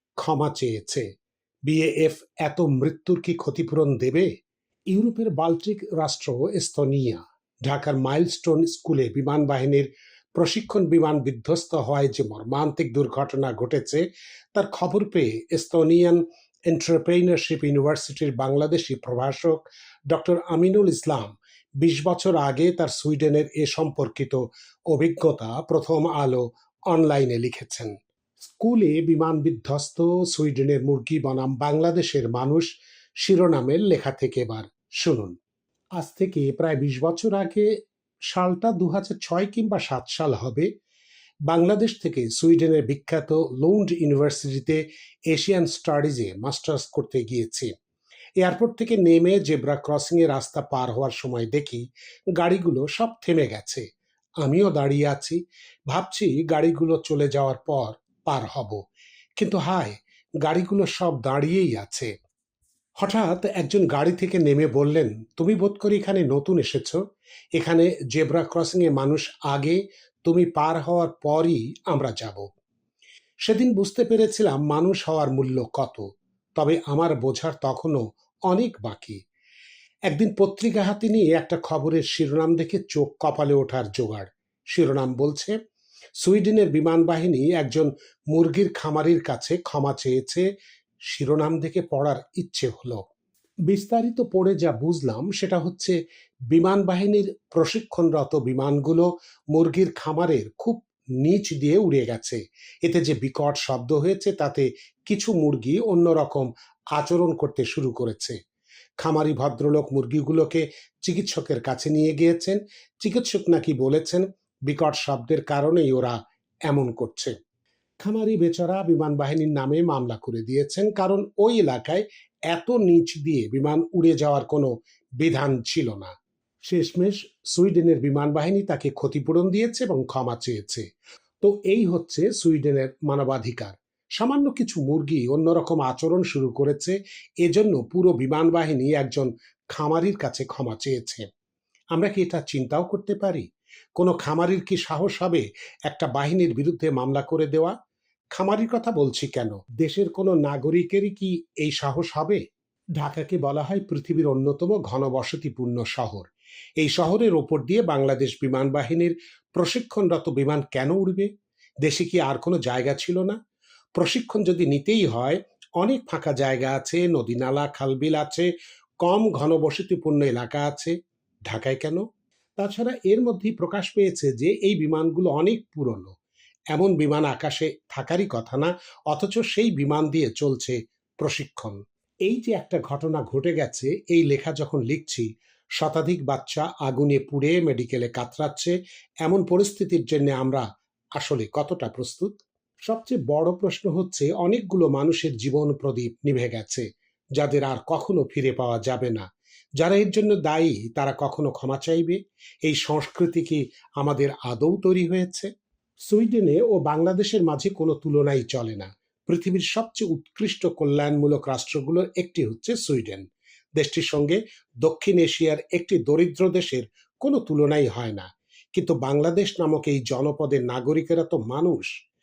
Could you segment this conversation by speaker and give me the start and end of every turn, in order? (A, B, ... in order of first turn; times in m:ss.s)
0:00.2-0:01.1 A
0:01.6-0:04.3 A
0:04.9-0:14.0 A
0:14.5-0:35.4 A
0:36.0-0:37.7 A
0:38.3-0:40.7 A
0:41.5-0:47.7 A
0:48.4-0:51.8 A
0:52.4-0:53.8 A
0:54.4-0:58.8 A
0:59.4-1:02.1 A
1:03.0-1:07.0 A
1:07.6-1:12.4 A
1:13.4-1:16.0 A
1:16.6-1:19.2 A
1:20.1-1:25.5 A
1:26.2-1:30.4 A
1:31.1-1:33.0 A
1:33.7-1:35.9 A
1:36.5-1:48.4 A
1:49.0-1:56.2 A
1:56.7-1:57.3 A
1:58.0-2:06.1 A
2:06.7-2:10.8 A
2:11.4-2:21.2 A
2:21.9-2:23.4 A
2:24.0-2:27.7 A
2:28.3-2:32.4 A
2:33.0-2:41.3 A
2:41.8-2:43.4 A
2:44.0-2:48.5 A
2:49.0-2:50.9 A
2:51.5-2:52.0 A
2:52.6-2:56.1 A
2:56.7-3:05.3 A
3:05.8-3:10.6 A
3:11.2-3:16.8 A
3:17.4-3:19.2 A
3:19.8-3:25.5 A
3:26.1-3:33.2 A
3:33.8-3:41.9 A